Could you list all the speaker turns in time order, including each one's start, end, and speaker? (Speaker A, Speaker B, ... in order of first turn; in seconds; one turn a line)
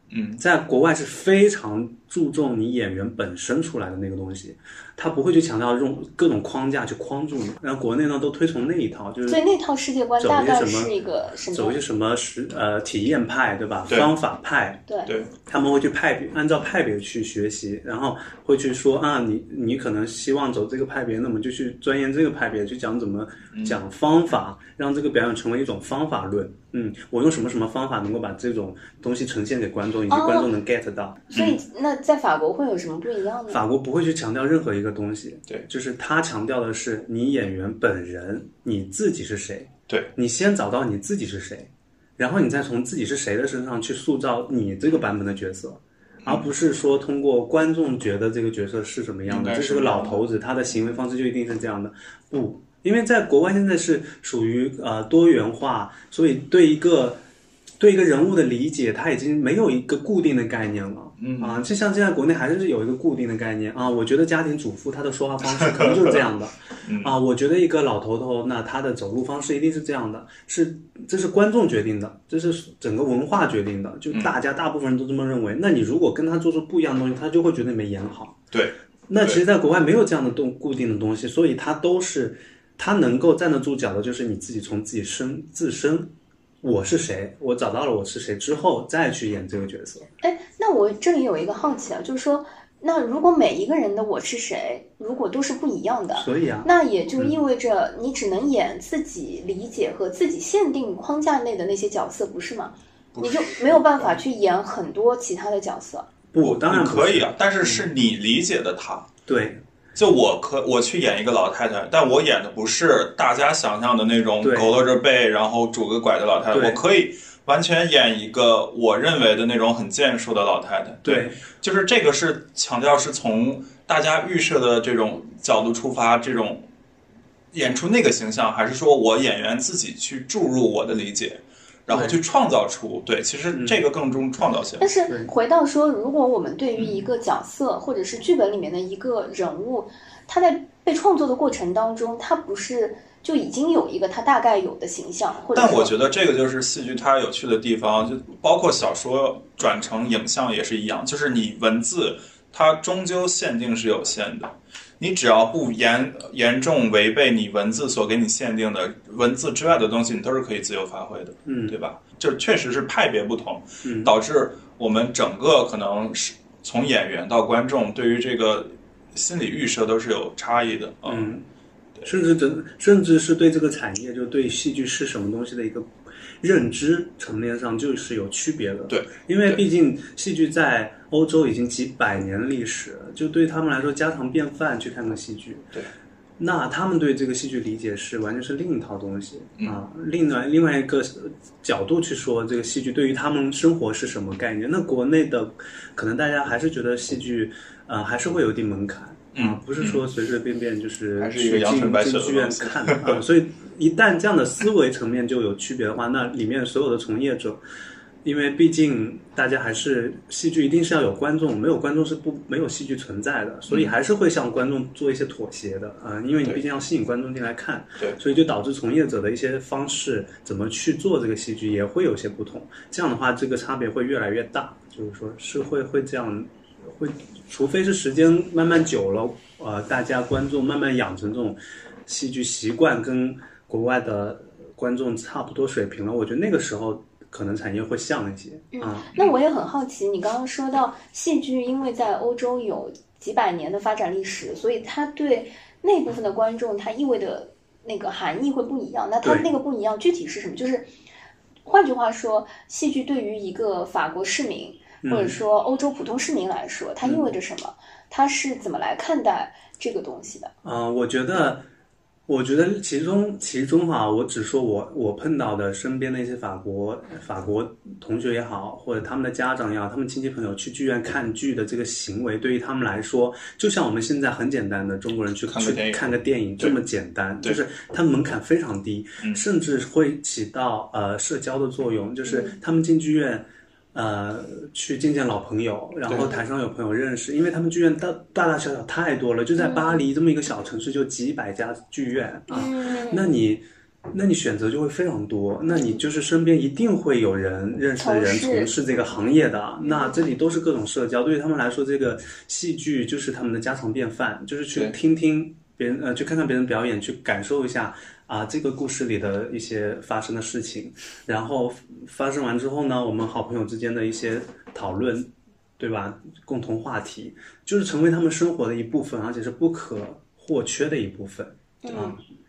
Speaker A: 0.1-0.4
Speaker B: 0.4-9.4
Speaker C: 9.3-11.8
Speaker B: 10.2-10.9
Speaker B: 11.5-14.8
Speaker B: 15.4-31.3
Speaker C: 30.1-30.5
Speaker C: 31.3-33.6
Speaker A: 31.3-31.6
Speaker B: 33.5-57.2
Speaker A: 46.2-46.5
Speaker A: 49.2-50.2
Speaker B: 57.8-78.4
Speaker A: 61.2-61.6
Speaker A: 65.6-66.2
Speaker A: 66.8-67.2
Speaker A: 78.5-79.4
Speaker B: 79.1-90.1
Speaker C: 90.2-106.1
Speaker B: 96.1-97.4
Speaker A: 103.1-103.8
Speaker B: 106.3-107.9
Speaker A: 106.4-109.1
Speaker B: 109.3-109.6
Speaker A: 109.9-126.7
Speaker B: 114.4-114.7
Speaker B: 116.5-116.8
Speaker B: 121.0-121.4
Speaker A: 127.5-134.8
Speaker B: 131.9-132.2
Speaker B: 133.5-133.8
Speaker C: 134.8-145.9
Speaker B: 135.1-135.3
Speaker A: 136.8-137.0
Speaker A: 145.5-171.3
Speaker B: 161.4-161.8
Speaker B: 163.8-164.1
Speaker B: 171.0-171.4
Speaker B: 172.0-185.8
Speaker A: 178.9-179.6
Speaker B: 186.4-207.6
Speaker A: 199.3-200.0
Speaker A: 201.2-203.2
Speaker B: 208.2-239.1
Speaker C: 238.7-250.9
Speaker B: 249.2-249.5
Speaker C: 251.6-260.5
Speaker B: 255.0-255.4
Speaker B: 257.0-257.3
Speaker B: 260.6-261.6
Speaker B: 262.3-322.2
Speaker A: 275.5-276.1
Speaker C: 282.2-282.5
Speaker C: 286.1-286.4
Speaker C: 289.6-290.0
Speaker C: 292.5-293.3
Speaker C: 295.7-296.0
Speaker C: 298.0-298.7
Speaker C: 299.8-300.2
Speaker C: 321.8-322.2